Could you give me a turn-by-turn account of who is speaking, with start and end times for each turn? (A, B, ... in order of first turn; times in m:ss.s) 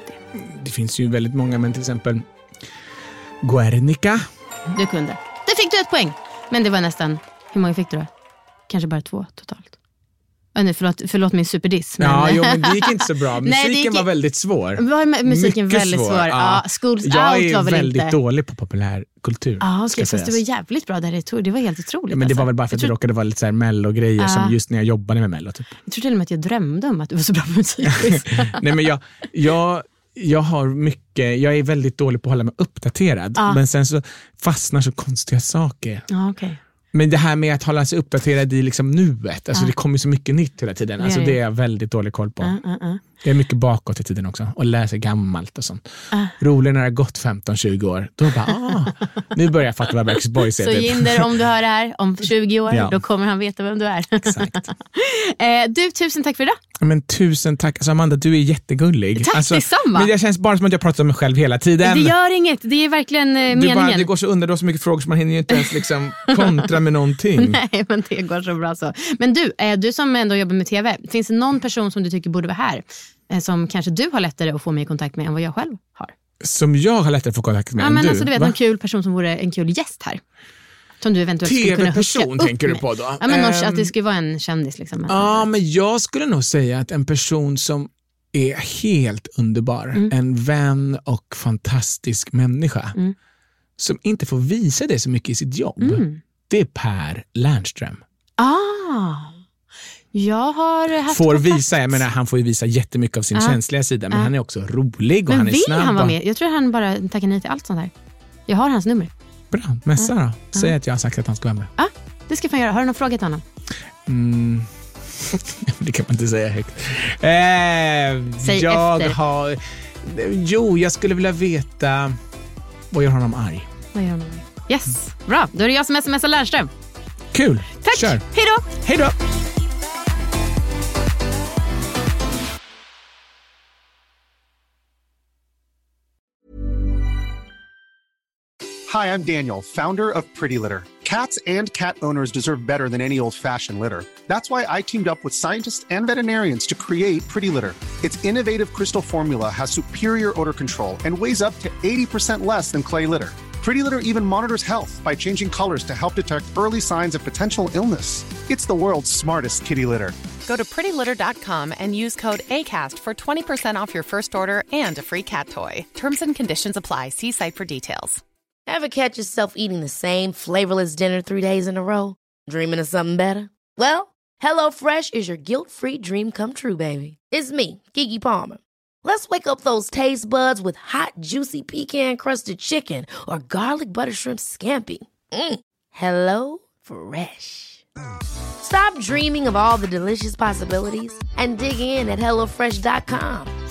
0:00.3-0:02.2 A
0:03.4-0:04.2 A
0:04.7-0:08.1 B
0:08.7-0:09.7 B
0:10.5-0:14.1 B
0:12.0-0:20.4 A
0:14.8-0:18.2 B
0:19.6-0:22.9 B
0:22.1-0:25.7 A
0:24.2-0:24.6 B
0:25.9-0:28.6 B
0:27.9-0:36.1 A
0:36.1-0:36.6 B
0:36.9-0:42.6 A
0:41.0-0:41.4 B
0:42.4-0:43.0 B
0:43.2-0:45.8 A
0:46.3-0:51.3 A
0:50.6-0:56.6 B
0:52.7-0:53.0 A
0:54.2-0:54.6 A
0:56.8-1:02.1 A
0:59.2-1:00.1 B
1:01.8-1:04.1 B
1:03.5-1:07.6 A
1:06.2-1:06.7 B
1:07.4-1:16.1 B
1:16.4-1:18.5 A
1:17.8-1:20.2 B
1:21.0-1:25.5 B
1:21.4-1:23.9 A
1:25.1-1:33.0 A
1:33.8-1:38.0 A
1:35.8-1:36.2 B
1:38.4-1:39.4 B
1:40.1-1:42.0 B
1:41.1-1:46.2 A
1:45.3-1:47.9 B
1:48.5-1:49.1 B
1:49.5-1:51.7 A
1:50.0-1:50.7 B
1:51.8-1:53.4 B
1:54.0-2:02.2 A
1:58.4-1:59.2 B
2:02.9-2:03.7 A
2:03.9-2:06.7 B
2:07.3-2:09.2 A
2:07.8-2:08.7 B
2:18.9-2:40.1 C
2:40.4-2:48.2 D
2:48.7-3:07.8 E
3:08.6-3:13.5 E